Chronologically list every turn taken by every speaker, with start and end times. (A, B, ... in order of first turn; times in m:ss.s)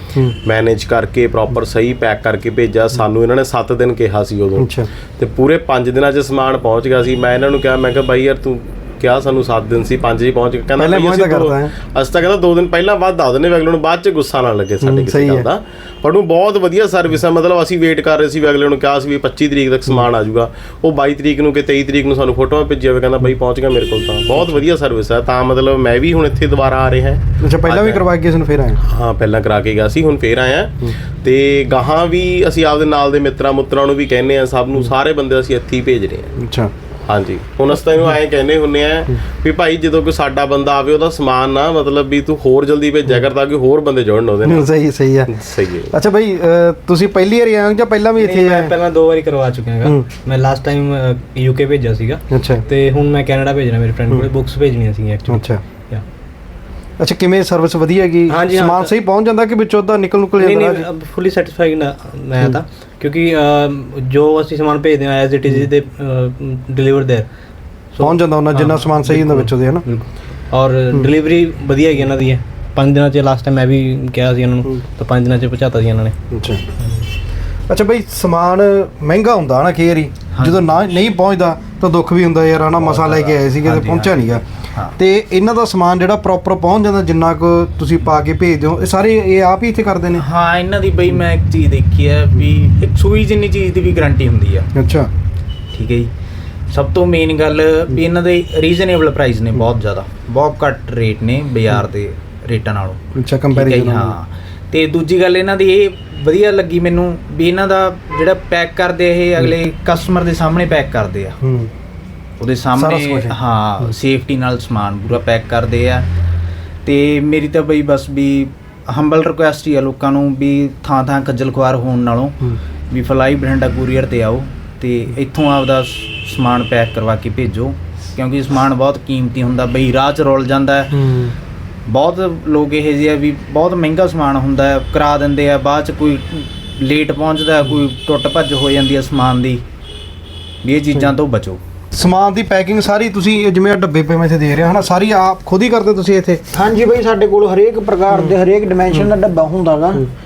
0:00.4-0:28.0 A
0:04.6-0:04.9 B
0:10.8-0:11.7 B
0:14.8-0:15.5 B
0:27.4-0:28.8 B
0:28.8-0:36.3 A
0:36.4-0:36.7 B
0:37.1-0:44.7 A
0:44.4-0:45.3 B
0:45.3-0:45.9 A
0:45.9-0:48.8 B
0:48.2-0:56.0 C
0:52.3-0:52.6 B
0:55.3-0:55.6 B
0:57.0-1:00.8 B
0:58.3-0:58.9 C
1:00.4-1:07.3 C
1:07.9-1:16.2 C
1:08.0-1:09.8 B
1:16.3-1:16.6 B
1:17.7-1:24.4 B
1:20.3-1:20.7 D
1:22.8-1:24.9 D
1:25.0-1:30.2 B
1:30.2-1:34.7 D
1:34.7-1:35.1 B
1:35.7-1:36.1 D
1:36.7-1:43.0 D
1:43.2-1:44.2 B
1:43.5-1:51.4 D
1:51.4-1:51.7 B
1:52.4-1:56.1 D
1:52.8-1:53.4 B
1:56.8-2:02.4 D
2:02.9-2:11.0 D
2:10.9-2:11.3 B
2:11.9-2:19.6 D
2:20.6-2:21.6 D
2:21.9-2:26.4 B
2:26.5-2:30.1 E